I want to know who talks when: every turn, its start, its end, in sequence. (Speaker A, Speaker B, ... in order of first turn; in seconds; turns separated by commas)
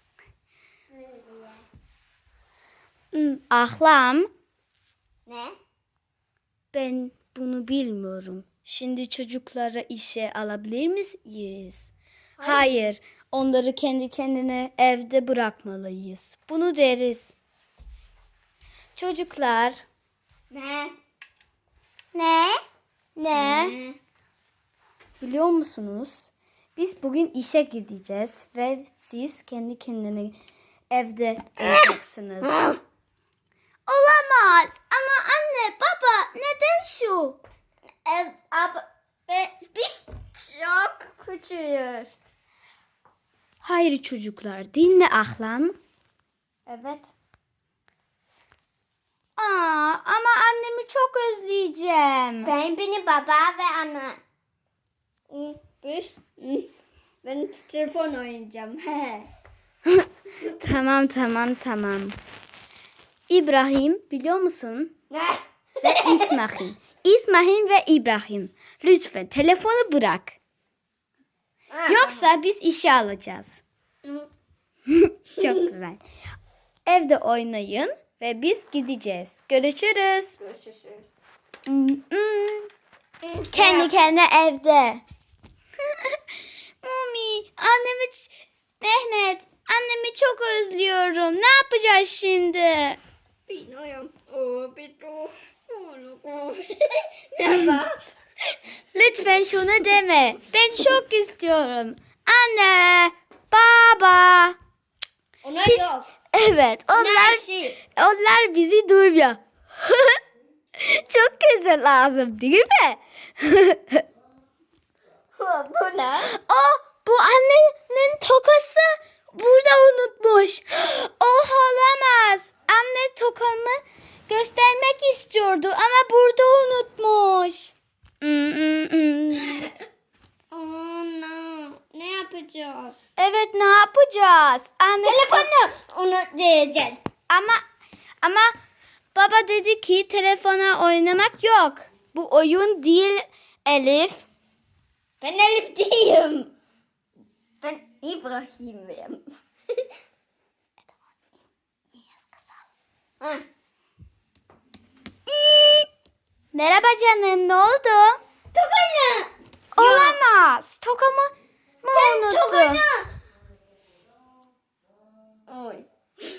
Speaker A: 0.9-1.6, Speaker B: 3.1-4.3, Speaker A: 5.3-5.6, Speaker B: 6.7-17.4, Speaker A: 12.4-12.9, Speaker B: 18.9-19.8, Speaker A: 20.5-20.9, Speaker B: 22.1-22.6, Speaker B: 23.2-23.8, Speaker A: 23.3-24.0, Speaker B: 25.2-30.4, Speaker B: 30.9-32.6, Speaker A: 32.4-32.8, Speaker B: 33.9-37.4, Speaker A: 38.0-42.2, Speaker B: 43.6-45.8, Speaker A: 46.7-47.1, Speaker B: 49.4-52.5, Speaker A: 52.4-54.2, Speaker A: 55.3-56.7, Speaker A: 57.2-59.3, Speaker B: 59.9-62.2, Speaker B: 63.3-64.9, Speaker A: 65.1-66.4, Speaker B: 65.8-70.4, Speaker A: 71.7-72.2, Speaker B: 71.9-73.6, Speaker B: 74.9-76.0, Speaker A: 75.4-75.7, Speaker B: 76.8-80.4, Speaker A: 80.4-81.1, Speaker B: 81.7-82.7, Speaker A: 83.2-83.9, Speaker B: 83.5-85.0, Speaker B: 86.8-93.0, Speaker A: 93.5-98.0, Speaker B: 98.9-104.6, Speaker A: 105.4-106.1, Speaker B: 105.7-110.2, Speaker A: 106.9-107.8, Speaker B: 110.8-114.0, Speaker A: 115.3-116.3, Speaker B: 116.3-129.8, Speaker A: 130.5-133.0, Speaker B: 133.2-135.5, Speaker A: 135.0-137.0, Speaker B: 137.3-137.6, Speaker B: 138.2-138.5, Speaker B: 139.1-144.2, Speaker A: 145.2-146.5, Speaker A: 147.6-149.3, Speaker A: 153.2-153.5, Speaker B: 155.3-155.9, Speaker B: 156.5-158.2, Speaker A: 158.5-160.2, Speaker B: 159.8-161.3, Speaker B: 161.8-162.8, Speaker A: 161.9-163.1, Speaker A: 165.5-165.9